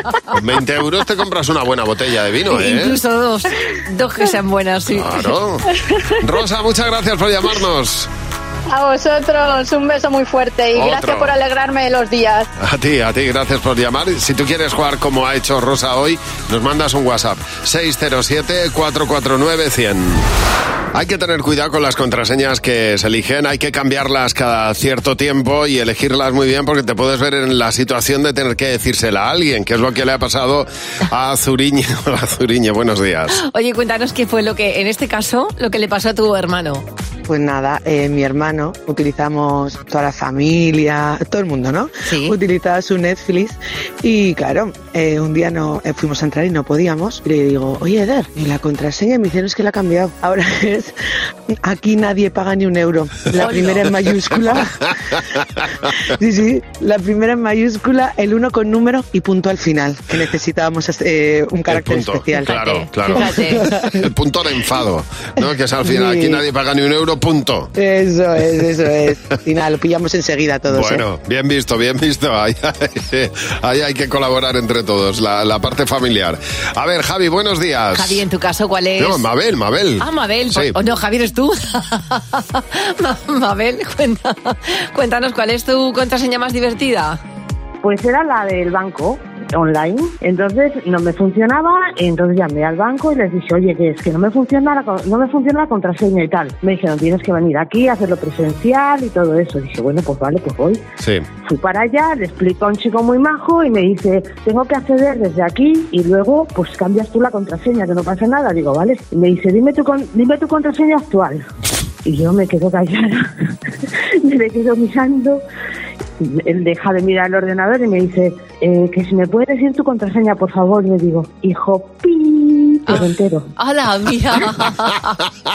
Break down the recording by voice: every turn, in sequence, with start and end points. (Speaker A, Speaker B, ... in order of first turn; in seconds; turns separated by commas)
Speaker A: 0.3-3.0, Speaker B: 2.5-5.3, Speaker A: 4.9-8.1, Speaker C: 8.7-12.4, Speaker A: 10.7-11.4, Speaker A: 12.6-20.3, Speaker A: 20.9-33.4, Speaker B: 33.3-36.9, Speaker D: 37.3-51.0, Speaker B: 42.0-42.4, Speaker D: 51.6-55.0, Speaker B: 53.4-53.9, Speaker D: 55.9-64.1, Speaker A: 61.7-63.3, Speaker B: 62.5-63.8, Speaker A: 64.0-67.7, Speaker D: 65.8-66.4, Speaker D: 67.8-71.0, Speaker A: 70.7-78.2, Speaker B: 77.9-79.2, Speaker A: 79.0-80.8, Speaker B: 80.0-87.2, Speaker E: 87.8-100.8, Speaker A: 101.0-101.3, Speaker E: 101.4-111.5, Speaker E: 112.0-113.5, Speaker E: 114.2-115.4, Speaker E: 116.2-123.5, Speaker B: 122.9-125.2